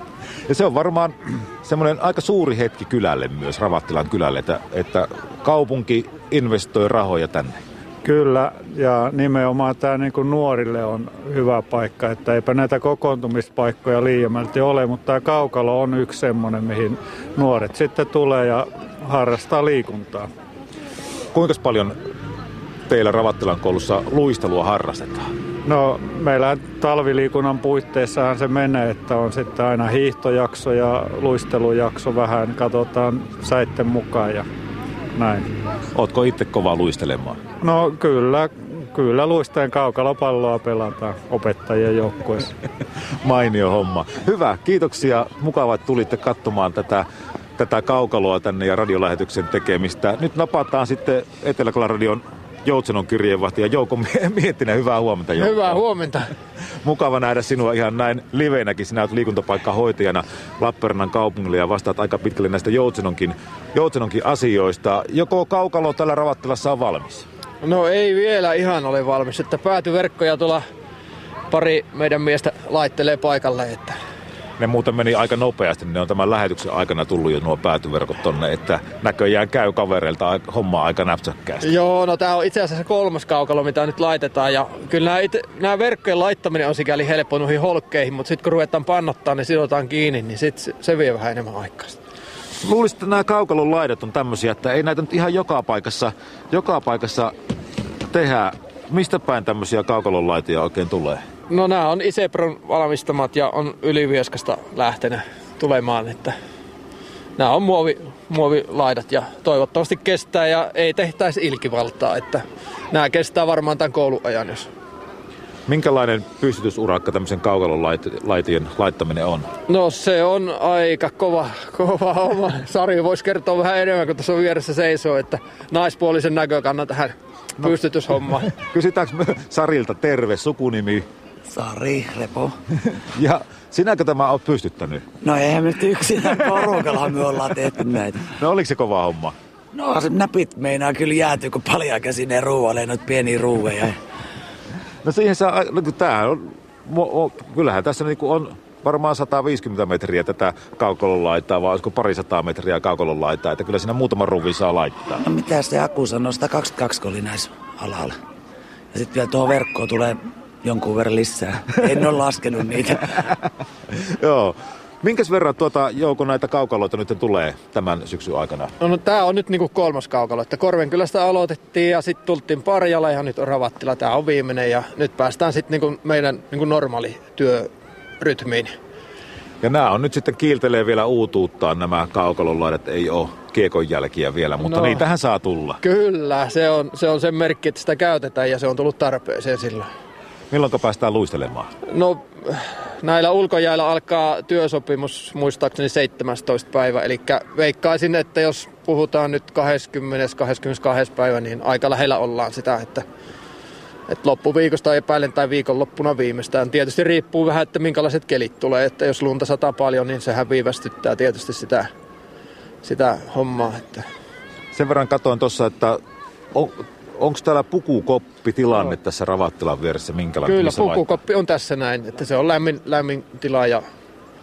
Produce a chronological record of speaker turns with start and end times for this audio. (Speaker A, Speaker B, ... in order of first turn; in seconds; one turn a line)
Speaker A: 0.5-7.6
Speaker B: 8.0-20.2
Speaker A: 21.3-21.9
Speaker A: 22.9-25.3
Speaker B: 25.7-34.4
Speaker B: 35.1-35.4
Speaker A: 35.9-37.4
Speaker B: 37.6-42.5
Speaker A: 43.2-47.0
Speaker A: 47.6-55.8
Speaker C: 55.4-56.3
Speaker A: 56.8-67.2
Speaker C: 67.6-70.6
Speaker C: 71.5-74.0
Speaker A: 74.6-81.7
Speaker C: 81.6-92.0
Speaker A: 92.6-97.3
Speaker A: 98.1-101.2
Speaker C: 101.5-106.3
Speaker C: 107.4-114.7
Speaker A: 115.7-119.5
Speaker C: 119.7-128.5
Speaker A: 128.5-131.1
Speaker D: 131.5-132.6
Speaker A: 132.9-135.1
Speaker D: 135.2-138.3
Speaker A: 138.2-139.3
Speaker D: 139.7-144.0
Speaker A: 145.0-155.2
Speaker D: 155.2-158.2
Speaker D: 158.9-163.3
Speaker A: 163.9-168.7
Speaker C: 168.8-177.7
Speaker C: 178.2-178.7
Speaker A: 179.6-185.8
Speaker C: 184.6-185.0
Speaker C: 185.8-189.8
Speaker A: 190.5-191.7
Speaker C: 191.9-203.0
Speaker C: 204.1-211.9
Speaker C: 212.8-214.0
Speaker A: 214.7-216.0
Speaker A: 216.5-221.2
Speaker C: 220.4-223.8